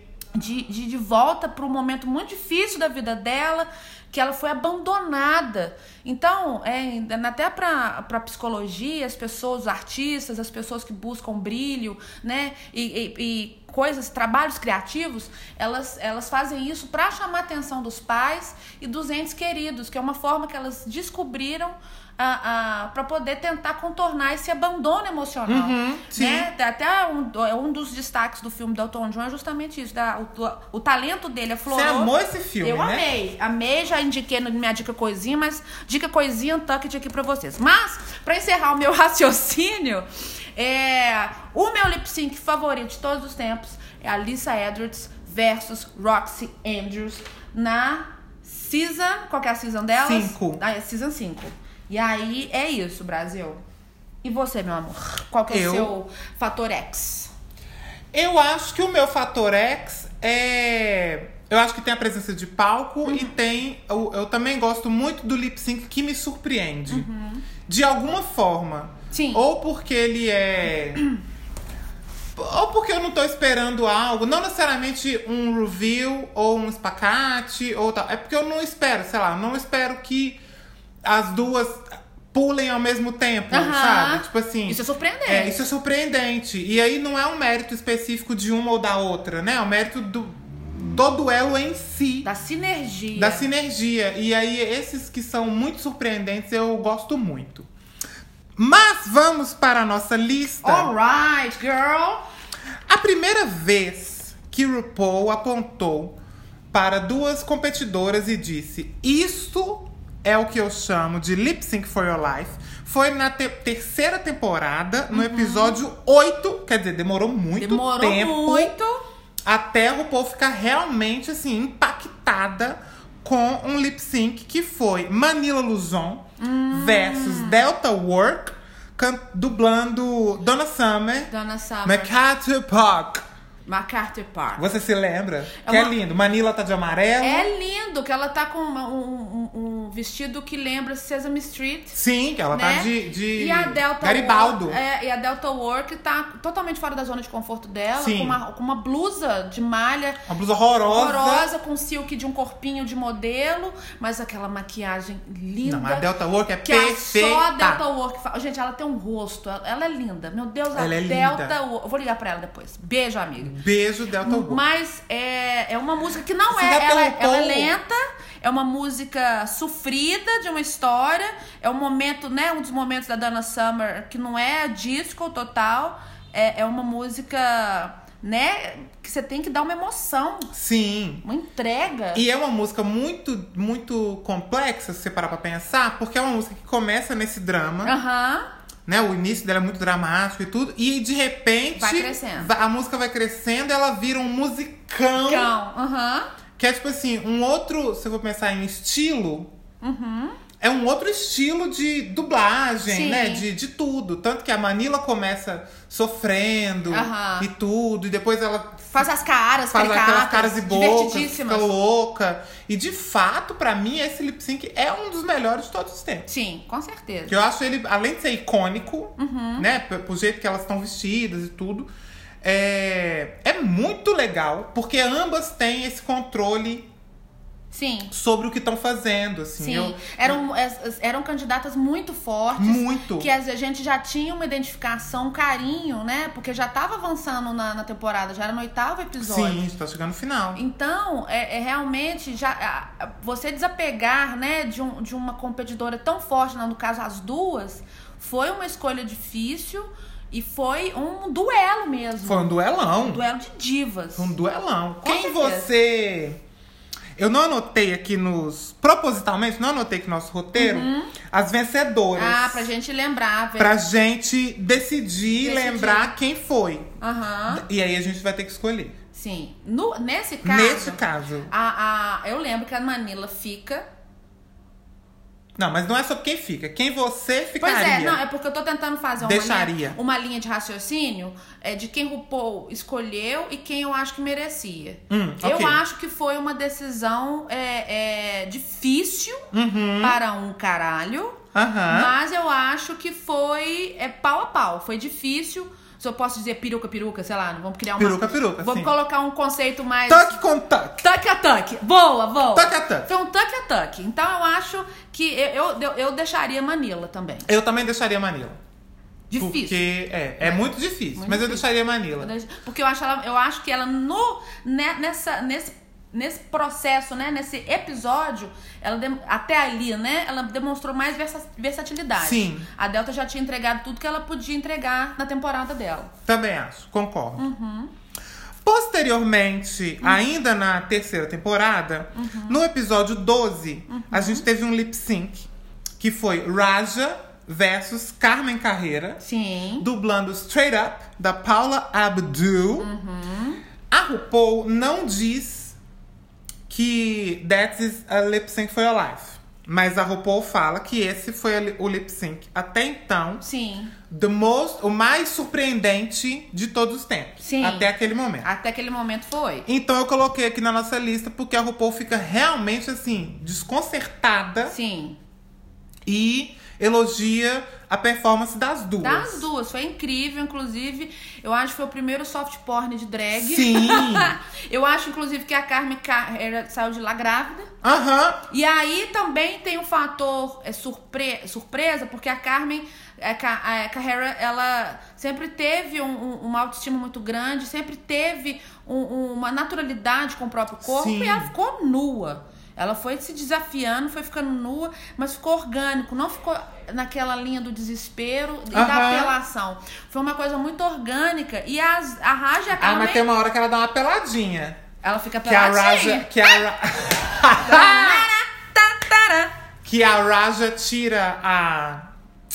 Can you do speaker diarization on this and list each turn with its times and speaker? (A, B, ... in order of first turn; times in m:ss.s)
0:00.3-0:53.6 A
0:25.5-0:26.5 B
0:31.7-0:33.1 B
0:50.0-0:50.6 B
0:54.2-0:57.3 A
0:55.5-0:55.9 B
0:58.1-1:07.1 B
1:03.0-1:03.3 A
1:06.9-1:07.4 A
1:07.7-1:11.0 B
1:09.1-1:09.4 A
1:12.4-1:20.4 B
1:21.0-1:32.3 B
1:23.5-1:25.6 A
1:32.2-1:33.5 A
1:33.2-1:37.7 B
1:38.6-1:40.9 B
1:40.6-1:42.2 A
1:42.9-1:46.2 B
1:46.7-1:58.8 B
1:55.1-1:55.8 A
1:57.6-1:59.0 A
1:59.5-2:11.3 B
2:06.4-2:07.7 A
2:11.3-2:12.1 A
2:11.8-2:13.2 B
2:13.7-2:14.6 A
2:14.6-2:17.5 B
2:15.6-2:15.9 A
2:17.2-2:22.0 A
2:21.9-2:24.8 B
2:22.5-2:30.2 A
2:28.0-2:28.4 B
2:30.3-2:31.5 B
2:30.8-2:36.1 A
2:35.6-2:37.8 B
2:36.6-2:43.6 A
2:40.8-2:41.5 B
2:43.4-2:44.6 B
2:44.2-3:00.5 A
2:46.5-2:47.7 B
3:00.5-3:01.2 B
3:01.2-3:02.2 A
3:02.1-3:08.0 B
3:07.8-3:08.5 A
3:08.9-3:15.5 B
3:11.8-3:12.5 A
3:15.2-3:16.3 A
3:16.6-3:19.5 B
3:19.8-3:20.4 A
3:20.6-3:29.1 B
3:22.9-3:23.4 A
3:26.9-3:27.5 A
3:28.9-3:31.7 A
3:29.7-3:36.3 B
3:36.3-3:37.4 A
3:37.3-3:41.9 B
3:39.2-3:39.7 A
3:42.4-3:46.9 B
3:47.7-3:48.1 A
3:48.1-3:50.4 B
3:49.6-3:59.6 A
3:52.6-3:53.3 B
3:59.2-4:00.6 B
4:00.6-4:14.3 A
4:12.2-4:13.2 B
4:14.2-4:16.4 B
4:15.0-4:15.7 A
4:17.2-4:22.7 B
4:20.6-4:21.1 A
4:22.2-4:23.7 A
4:23.6-4:26.9 B
4:25.4-4:26.1 A
4:27.0-4:27.6 A
4:27.5-4:29.0 B
4:29.1-4:33.8 A
4:30.4-4:31.5 B
4:35.6-4:38.2 B
4:37.6-4:49.5 A
4:39.2-4:40.0 B
4:45.1-4:45.8 B
4:49.5-4:50.2 B
4:50.0-5:00.4 A
4:51.5-4:52.1 B
4:58.0-4:58.9 B
5:00.1-5:01.0 B
5:01.0-5:07.5 A
5:02.5-5:03.1 B
5:07.5-5:08.6 B
5:09.3-5:09.8 A
5:09.4-5:12.3 B
5:10.4-5:11.6 A
5:12.2-5:26.1 A
5:22.2-5:22.7 B
5:26.3-5:27.5 B
5:27.4-5:27.9 A
5:28.6-5:35.5 B
5:32.2-5:32.6 A
5:33.9-5:34.4 A
5:36.0-5:39.2 B
5:39.2-5:39.9 A
5:39.8-5:42.9 B
5:42.8-5:43.6 A
5:43.9-5:45.8 B
5:46.7-5:53.4 B
5:53.4-5:54.0 A
5:54.1-5:58.5 B
5:57.4-5:57.9 A
5:58.4-5:59.7 A
5:59.7-6:04.8 B
6:04.7-6:05.2 A
6:06.1-6:09.5 B
6:09.0-6:17.7 A
6:13.4-6:14.4 B
6:17.8-6:18.4 B
6:18.5-6:43.2 A
6:30.8-6:31.5 B
6:38.7-6:39.4 B
6:42.8-6:44.8 B
6:45.0-6:46.6 A
6:45.4-6:48.3 B
6:47.5-6:49.5 A
6:49.8-6:52.1 B